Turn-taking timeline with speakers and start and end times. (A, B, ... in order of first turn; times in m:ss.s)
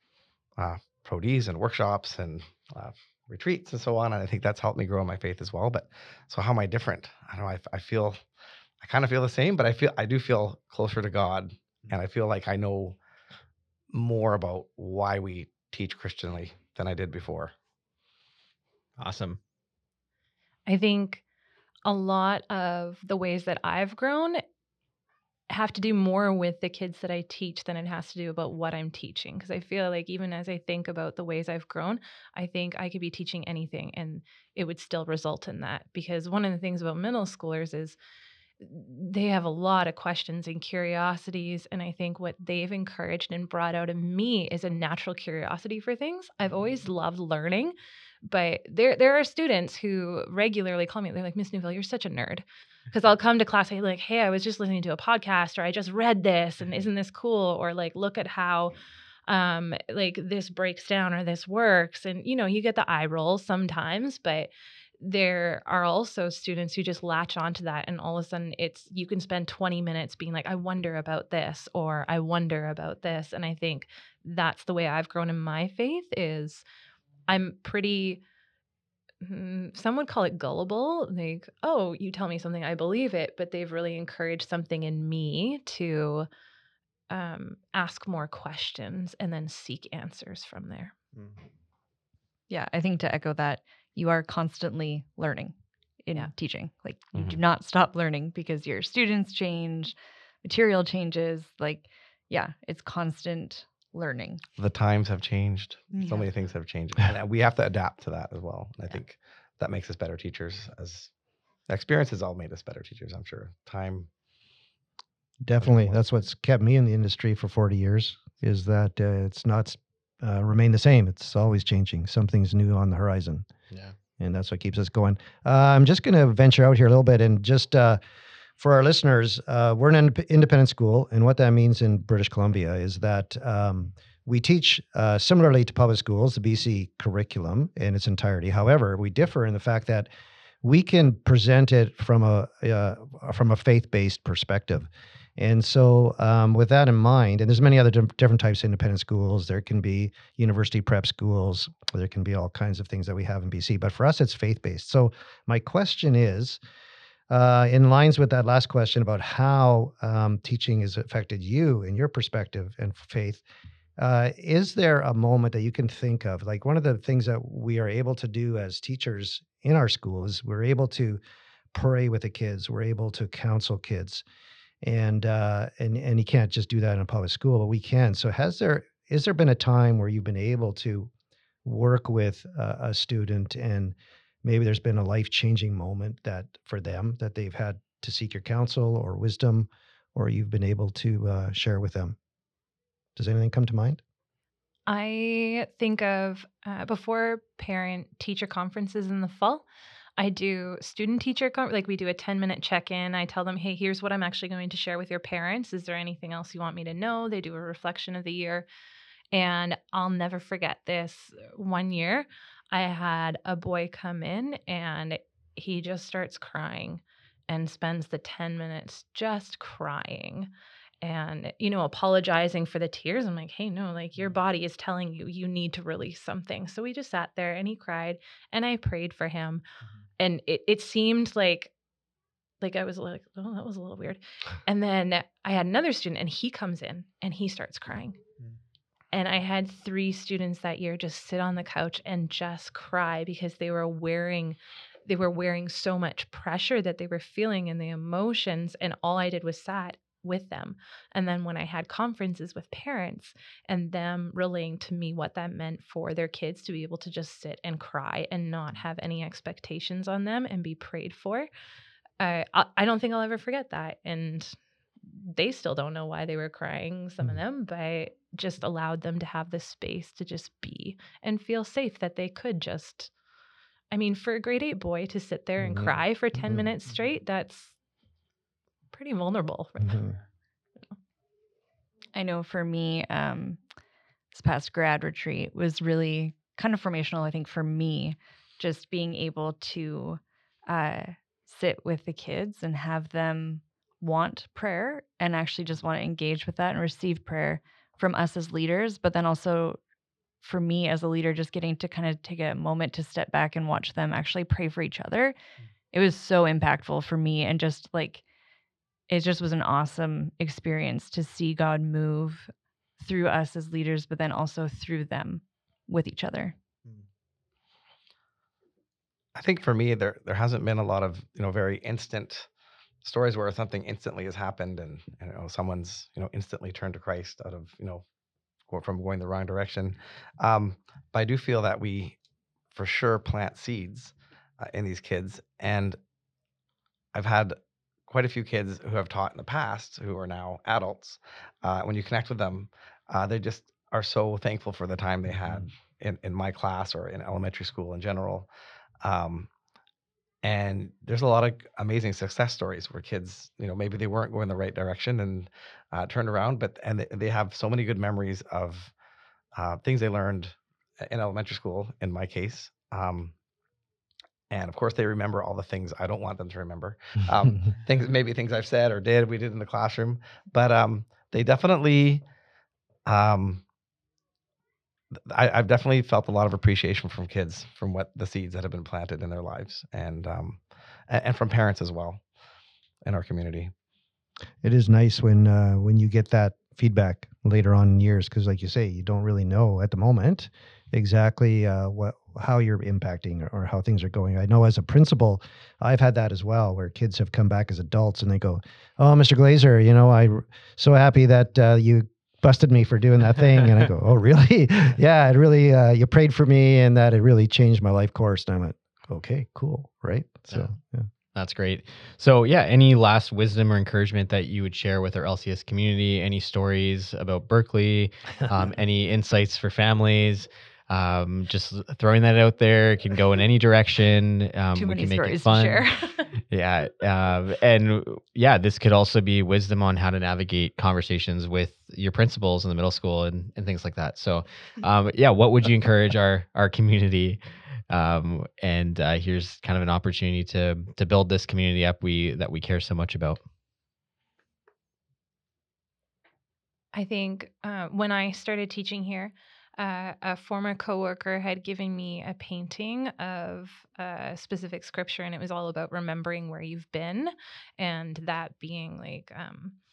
0:00.6-0:08.2 A
0:08.8-0:13.0 A
0:13.9-0:17.5 A
0:19.0-0:19.4 B
0:20.7-0:21.2 C
0:21.8-0:24.4 C
0:25.5-0:38.0 C
0:38.6-0:58.8 C
0:59.3-1:04.5 C
1:05.0-1:16.6 C
1:17.3-1:18.2 C
1:19.2-1:26.3 C
1:27.1-1:31.0 C
1:32.5-1:35.5 D
1:36.0-1:44.4 D
1:44.6-1:51.1 A
1:45.9-1:46.3 D
1:51.7-1:54.1 A
1:55.4-2:03.4 E
2:04.2-2:08.0 E
2:08.6-2:20.1 E
2:20.6-2:36.6 E
2:37.3-2:43.4 E
2:44.0-2:51.2 E
2:51.7-2:54.2 E
2:54.8-3:01.1 E
3:01.6-3:12.2 E
3:13.2-3:14.0 E
3:14.9-3:19.6 C
3:20.2-3:28.6 C
3:29.3-3:40.5 C
3:41.0-3:49.6 C
3:50.2-3:51.7 C
3:52.6-3:58.2 C
3:59.1-4:21.5 C
4:22.2-4:24.6 C
4:25.1-4:33.1 C
4:33.9-4:37.8 C
4:35.6-4:35.9 E
4:38.9-4:40.1 C
4:39.8-4:40.1 E
4:42.1-4:43.6 D
4:44.3-4:59.8 D
5:00.4-5:05.4 D
5:05.9-5:08.2 D
5:09.1-5:16.6 D
5:19.4-5:22.5 A
5:23.0-5:28.0 A
5:28.7-5:32.2 A
5:32.7-5:36.0 A
5:37.1-5:37.6 A
5:38.1-5:48.5 A
5:49.0-5:49.5 A
5:50.4-5:58.9 A
5:59.6-6:03.3 A
6:04.5-6:12.2 A
6:13.1-6:13.6 A
6:15.1-6:22.2 A
6:23.0-6:23.7 A
6:24.6-6:51.1 E
6:51.4-7:05.9 B
7:04.8-7:06.3 D
7:06.5-7:23.4 B
7:26.9-7:39.8 C